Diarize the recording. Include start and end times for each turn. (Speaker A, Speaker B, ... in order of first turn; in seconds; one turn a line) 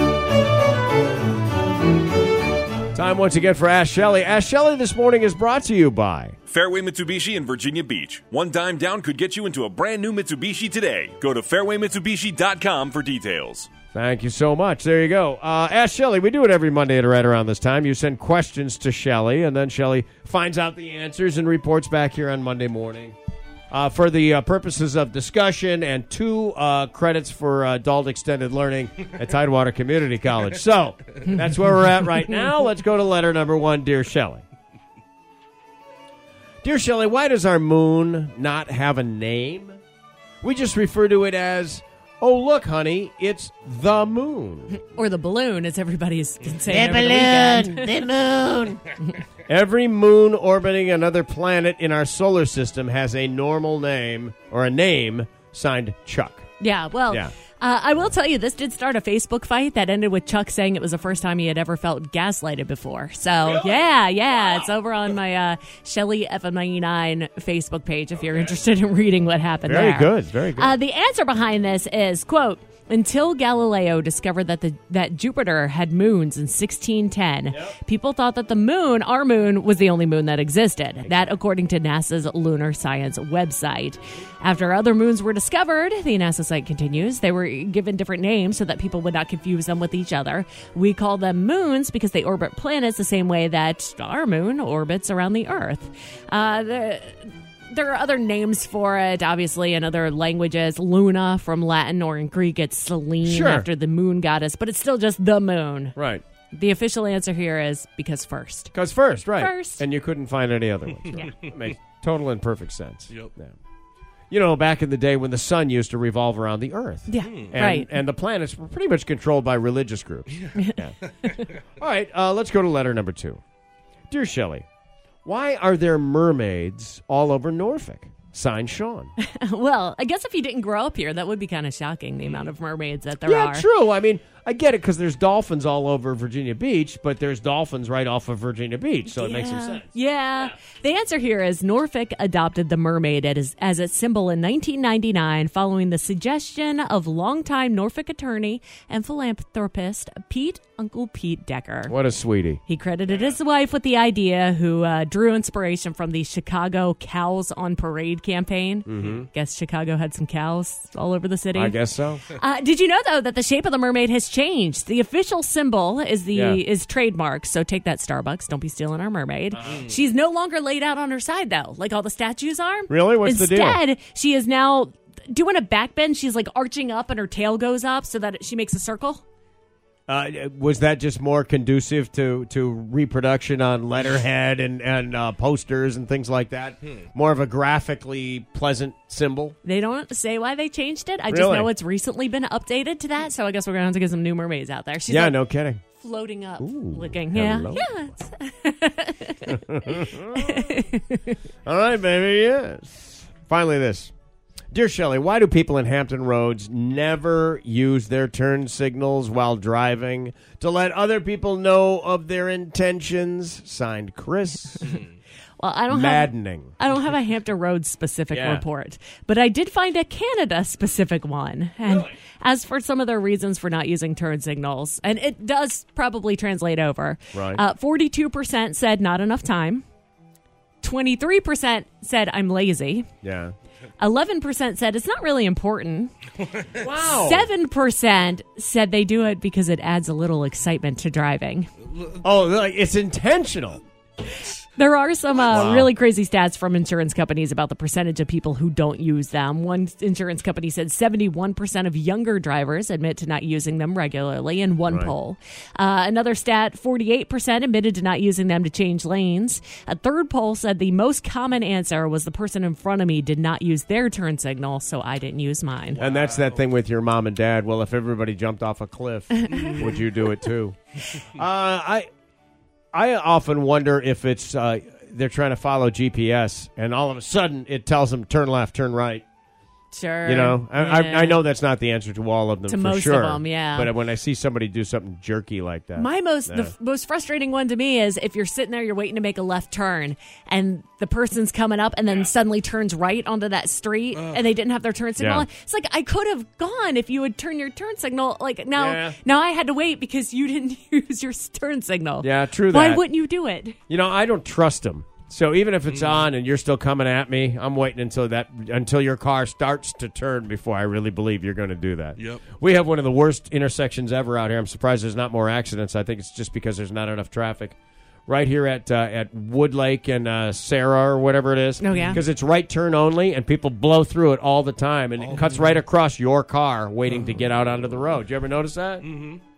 Speaker A: 2.9-6.3
Speaker B: 6.5-13.7
Speaker A: 13.9-23.1
Speaker A: 23.7-34.4
Speaker A: 36.6-39.8
Speaker A: 40.4-44.8
Speaker C: 44.8-48.0
Speaker A: 46.5-56.5
Speaker C: 56.6-106.0
Speaker A: 69.7-70.8
Speaker A: 81.0-81.4
Speaker A: 103.2-103.7
Speaker A: 106.0-106.2
Speaker C: 106.5-108.7
Speaker A: 108.7-113.5
Speaker C: 109.3-109.8
Speaker A: 114.3-121.0
Speaker C: 117.1-117.9
Speaker C: 120.5-121.5
Speaker A: 121.5-123.4
Speaker A: 124.1-124.6
Speaker A: 125.2-129.1
Speaker C: 129.2-133.7
Speaker A: 133.2-139.9
Speaker C: 139.1-151.9
Speaker A: 151.9-152.6
Speaker C: 152.7-179.2
Speaker A: 158.9-159.3
Speaker A: 161.5-162.2
Speaker A: 166.3-166.6
Speaker A: 169.5-169.9
Speaker A: 172.9-173.8
Speaker A: 180.1-189.6
Speaker C: 189.6-195.4
Speaker A: 191.3-191.7
Speaker A: 195.1-195.8
Speaker C: 195.9-201.4
Speaker A: 196.6-198.1
Speaker A: 199.4-200.8
Speaker A: 201.6-204.1
Speaker A: 204.7-214.9
Speaker C: 215.6-229.8
Speaker A: 215.9-216.7
Speaker A: 218.3-218.6
Speaker A: 227.3-227.6
Speaker C: 230.8-233.1
Speaker A: 233.2-233.5
Speaker C: 234.0-236.1
Speaker A: 236.7-237.5
Speaker C: 237.0-241.7
Speaker A: 242.2-243.8
Speaker C: 244.7-266.0
Speaker A: 245.4-245.9
Speaker A: 254.9-255.1
Speaker A: 266.0-272.1
Speaker C: 269.4-269.8
Speaker A: 272.9-279.2
Speaker C: 279.9-281.4
Speaker A: 280.2-286.7
Speaker C: 282.7-283.9
Speaker C: 285.9-303.8
Speaker A: 295.2-295.5
Speaker A: 298.8-299.2
Speaker A: 302.2-303.0
Speaker A: 303.9-317.8
Speaker A: 318.3-329.1
Speaker C: 321.8-322.2